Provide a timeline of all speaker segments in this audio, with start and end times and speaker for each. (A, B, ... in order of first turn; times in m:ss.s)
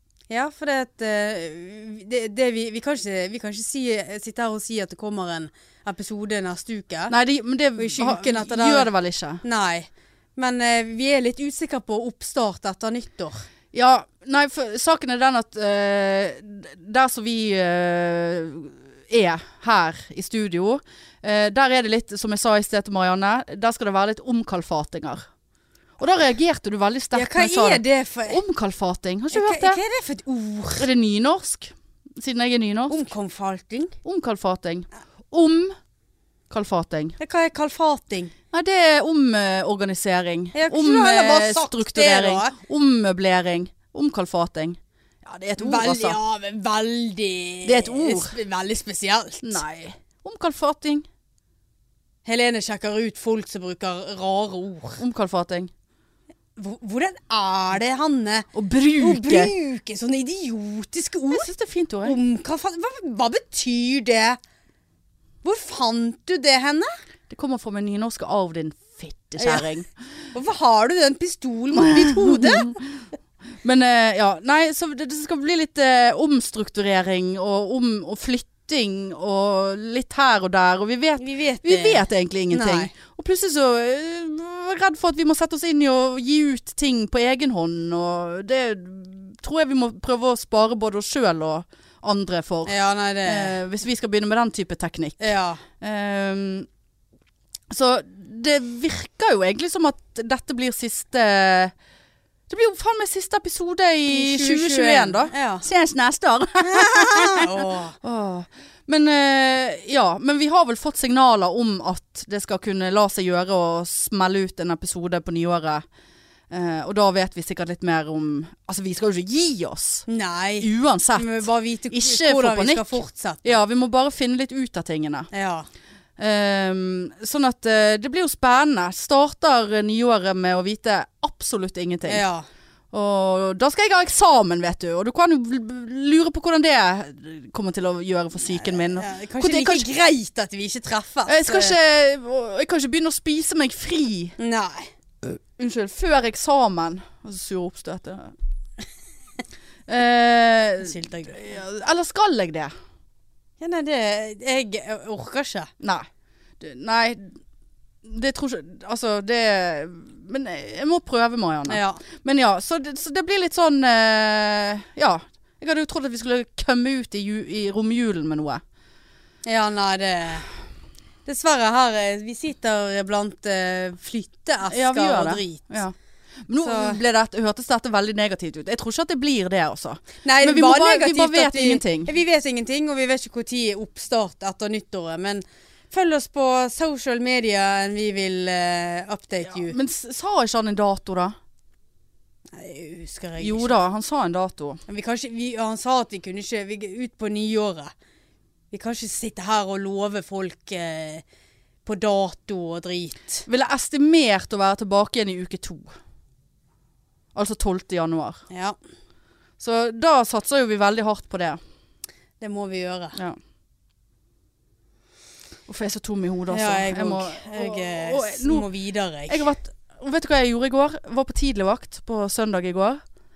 0:00.3-0:07.1 A
0:07.1-0:09.4 B
0:07.8-0:08.9 A
0:09.4-0:13.4 A
0:13.7-0:25.2 B
0:26.0-0:29.8 B
0:27.1-0:28.4 A
0:29.3-0:30.9 A
0:30.8-0:33.0 B
0:32.9-0:34.0 A
0:34.0-0:35.8 B
0:36.5-0:37.2 B
0:37.2-0:38.3 A
0:38.5-0:46.2 B
0:40.5-0:42.6 A
0:45.6-0:49.6 A
0:47.6-0:48.3 B
0:49.4-0:51.1 B
0:52.2-0:55.0 A
0:55.0-0:55.7 B
0:56.6-1:01.5 A
0:58.5-0:59.5 B
1:01.3-1:02.2 B
1:02.0-1:04.4 A
1:05.4-1:06.9 A
1:07.3-1:09.9 B
1:09.4-1:09.6 A
1:10.3-1:12.8 A
1:11.8-1:13.0 B
1:13.6-1:32.7 B
1:21.2-1:22.9 A
1:32.6-1:33.6 A
1:33.2-1:36.7 B
1:35.2-1:35.6 A
1:37.7-1:41.7 B
1:42.5-1:55.8 B
1:44.1-1:45.6 A
1:46.6-1:48.0 A
1:56.5-2:00.0 B
2:00.1-2:03.6 A
2:00.6-2:05.3 B
2:05.3-2:05.7 A
2:06.2-2:12.2 B
2:12.0-2:12.4 A
2:12.9-2:19.9 B
2:18.5-2:21.8 A
2:21.3-2:24.4 B
2:24.4-2:24.9 A
2:25.6-2:28.3 B
2:29.9-2:32.7 B
2:30.8-2:31.4 A
2:33.6-2:35.7 A
2:35.8-2:36.1 B
2:36.6-2:37.4 B
2:38.0-2:48.6 B
2:41.7-2:42.0 A
2:49.4-2:50.4 A
2:51.2-2:55.7 A
2:54.7-2:55.9 B
2:56.5-3:02.1 B
2:56.6-2:57.0 A
3:00.2-3:09.8 A
3:09.4-3:11.4 B
3:12.5-3:13.7 A
3:13.4-3:14.8 B
3:14.9-3:17.9 A
3:18.7-3:21.2 A
3:21.8-3:23.5 A
3:23.5-3:25.9 B
3:27.3-3:28.4 B
3:28.5-3:28.8 A
3:29.6-3:31.6 B
3:32.4-3:33.2 A
3:35.7-3:38.7 B
3:36.5-3:39.5 A
3:39.3-3:43.0 B